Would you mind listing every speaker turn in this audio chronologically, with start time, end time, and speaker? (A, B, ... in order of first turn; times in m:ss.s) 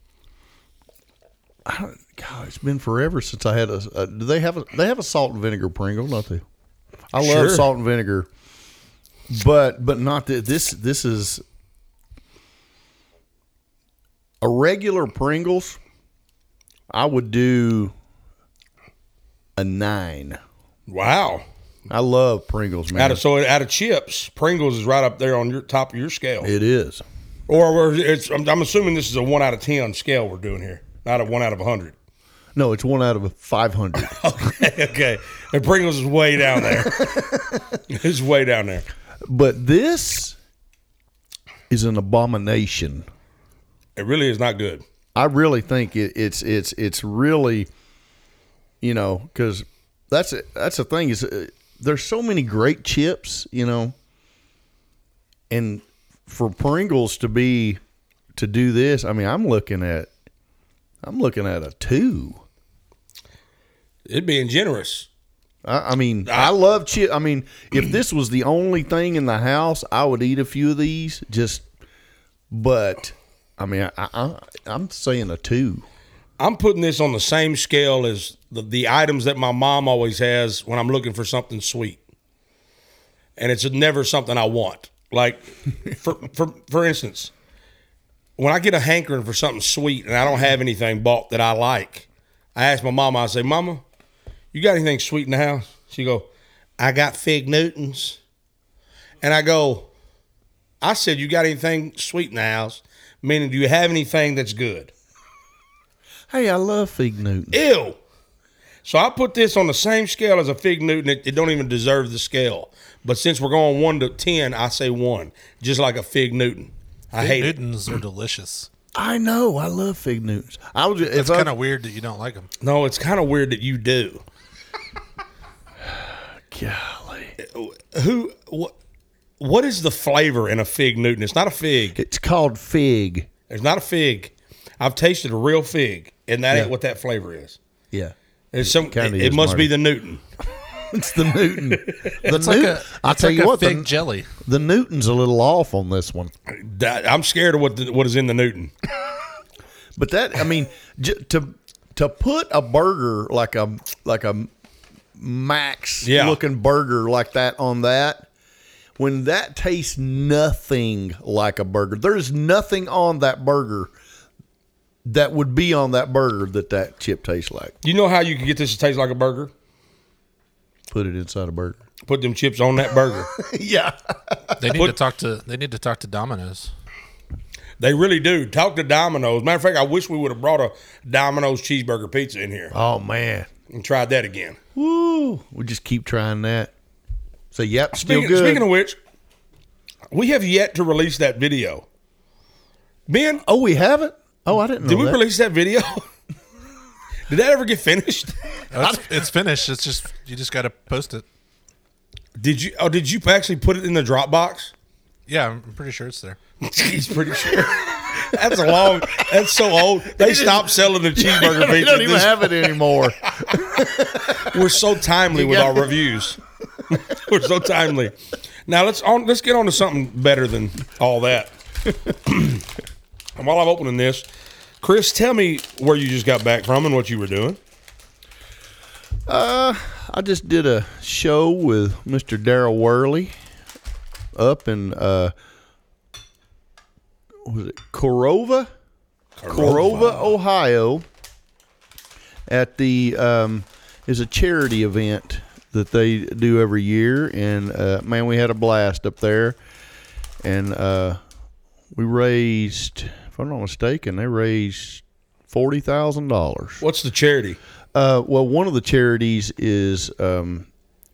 0:01.6-0:06.4 A
0:07.1-0:08.3 A
0:07.2-0:07.7 B
0:09.3-0:11.4 A
0:14.4-0:15.8 A
0:16.9-0:17.9 A
0:19.6-0:20.4 A
0:20.9-0:21.4 B
0:21.9-0:23.2 A
0:22.9-0:26.5 B
0:26.4-0:27.0 A
0:27.5-0:32.0 B
0:32.6-0:34.1 A
0:34.0-0:37.2 B
0:37.0-0:37.6 A
0:37.9-0:38.9 B
0:39.2-0:40.4 A
0:41.7-0:43.0 A
0:44.0-0:44.8 B
0:45.2-0:47.7 A
0:48.8-0:54.0 A
0:55.5-0:57.8 A
0:58.4-1:00.1 A
1:01.0-1:02.4 A
1:04.1-1:05.1 B
1:05.6-1:11.6 A
1:06.3-1:06.5 B
1:12.5-1:15.8 A
1:16.4-1:22.0 B
1:23.4-1:27.3 B
1:28.4-1:33.8 B
1:34.5-1:36.3 B
1:36.8-1:38.2 B
1:39.2-1:39.9 B
1:40.8-1:44.9 B
1:46.3-1:47.6 A
1:47.5-1:48.0 B
1:48.8-1:57.6 B
1:57.2-1:58.7 C
1:59.0-2:01.5 A
2:01.1-2:02.5 C
2:02.6-2:04.2 B
2:05.8-2:07.4 A
2:07.4-2:08.7 B
2:09.4-2:12.0 B
2:12.0-2:13.3 A
2:13.5-2:17.6 B
2:17.9-2:19.7 A
2:18.5-2:20.2 B
2:20.9-2:23.9 A
2:21.8-2:22.2 B
2:22.2-2:24.3 C
2:24.4-2:26.3 A
2:26.5-2:28.7 B
2:30.0-2:34.5 A
2:35.2-2:38.3 A
2:36.0-2:36.4 B
2:39.0-2:43.9 A
2:45.0-2:47.8 A
2:47.8-2:49.5 B
2:50.9-2:51.8 A
2:52.1-2:53.3 B
2:53.3-2:54.7 A
2:54.6-2:56.7 C
2:57.8-3:02.7 B
3:02.7-3:03.5 A
3:03.7-3:04.6 B
3:04.8-3:06.7 A
3:07.5-3:08.7 A
3:08.0-3:09.0 B
3:10.1-3:11.9 B
3:13.1-3:13.4 B
3:13.4-3:15.2 A
3:14.8-3:16.1 B
3:17.3-3:18.4 B
3:18.7-3:21.2 C
3:22.4-3:24.7 B
3:25.3-3:26.4 C
3:26.6-3:32.7 B
3:30.2-3:34.6 A
3:34.4-3:38.2 B
3:35.3-3:35.9 A
3:38.7-3:41.5 B
3:42.1-3:42.6 B
3:43.4-3:44.3 B
3:44.8-3:47.6 B
3:49.3-3:53.3 A
3:54.4-3:55.3 A
3:57.4-3:58.7 A
3:59.4-4:00.3 B
3:59.5-4:01.0 A
4:02.5-4:09.6 A
4:10.4-4:11.2 A
4:11.9-4:16.8 A
4:16.8-4:17.6 B
4:17.9-4:20.7 A